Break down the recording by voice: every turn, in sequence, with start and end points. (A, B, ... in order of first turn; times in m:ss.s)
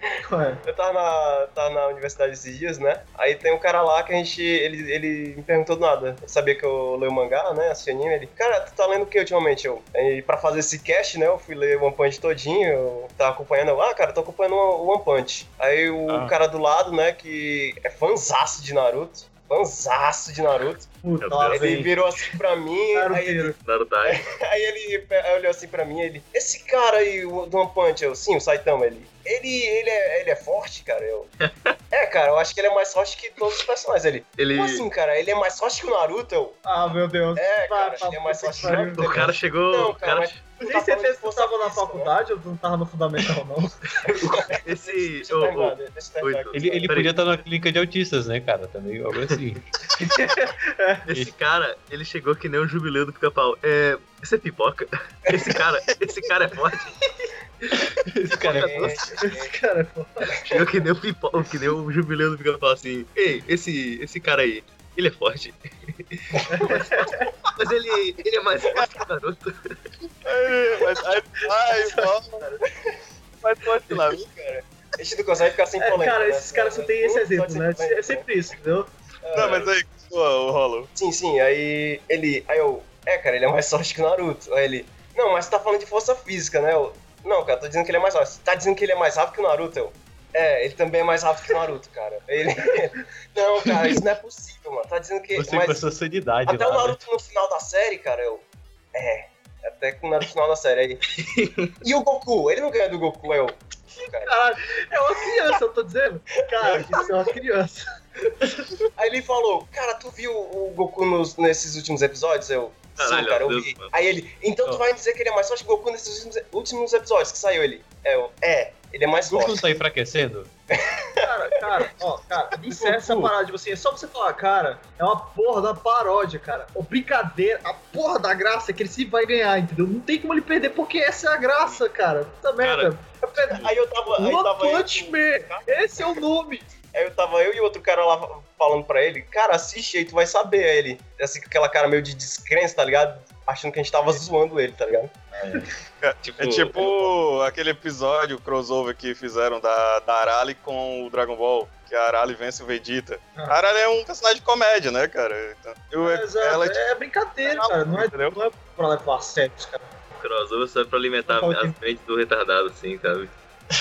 0:00.2-0:00.6 A
0:00.6-0:20.9 B
0:16.1-0:16.4 C
0:21.0-0:22.4 A
0:21.2-0:21.8 D
0:21.5-0:31.3 B
0:22.9-0:23.6 A
0:23.6-0:24.3 D
0:31.4-0:31.7 D
0:31.9-0:36.6 B
0:34.4-0:34.8 D
0:36.6-0:39.1 A
0:37.4-0:42.1 B
0:38.7-0:40.4 D
0:40.6-0:43.8 A
0:44.0-0:47.1 D
0:44.0-0:47.0 B
0:45.6-0:45.9 A
0:46.5-0:49.7 C
0:49.9-0:51.1 A
0:51.1-0:57.0 D
0:57.0-0:57.3 A
0:58.0-0:59.0 C
0:58.4-0:59.1 D
0:58.4-0:59.5 B
0:59.2-1:00.4 A
1:00.4-1:06.4 D
1:06.5-1:07.3 A
1:06.5-1:07.3 B
1:07.5-1:09.8 D
1:10.2-1:12.4 E
1:11.8-1:12.7 A
1:13.4-1:14.3 E
1:14.0-1:18.3 B
1:15.8-1:18.9 A
1:19.2-1:19.7 B
1:19.3-1:20.9 E
1:21.0-1:35.9 B
1:35.4-1:37.0 C
1:36.5-1:41.1 B
1:41.2-1:41.7 D
1:41.8-1:44.3 B
1:44.0-1:48.7 A
1:46.6-1:47.2 B
1:49.0-1:59.7 B
1:53.0-1:53.9 D
1:59.1-2:00.5 C
2:00.7-2:01.9 B
2:01.2-2:16.7 A
2:12.6-2:13.7 D
2:13.6-2:16.2 B
2:16.9-2:25.1 B
2:25.3-2:25.7 C
2:26.0-2:36.8 E
2:26.2-2:27.1 D
2:36.0-2:39.9 A
2:37.4-2:38.4 E
2:40.2-2:43.3 D
2:41.3-2:41.8 A